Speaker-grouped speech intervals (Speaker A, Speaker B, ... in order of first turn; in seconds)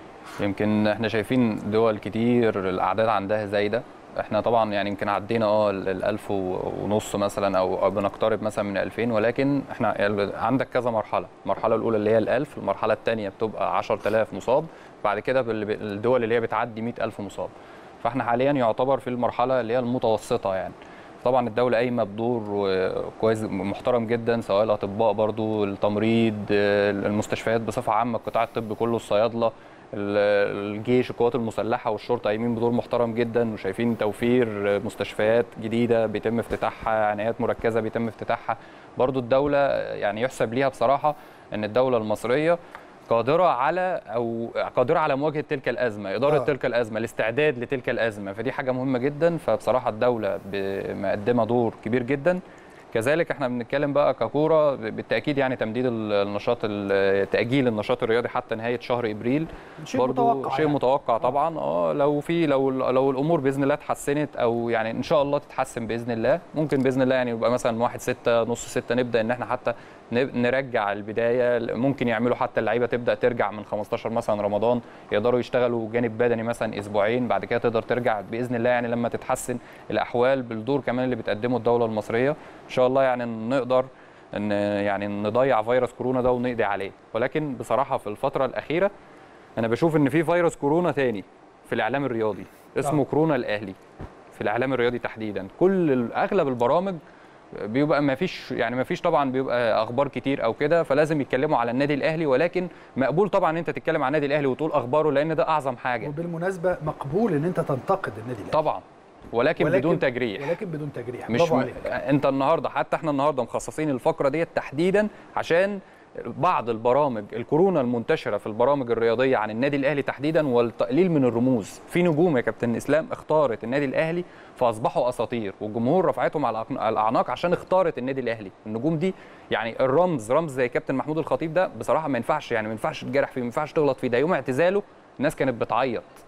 Speaker A: 0.4-42.6, 43.1-52.4, 52.9-88.9, 89.6-93.7, 94.3-97.0, 97.5-106.1, 108.5-110.5, 111.3-136.1
Speaker B: 59.8-60.8, 106.0-108.6, 109.6-111.9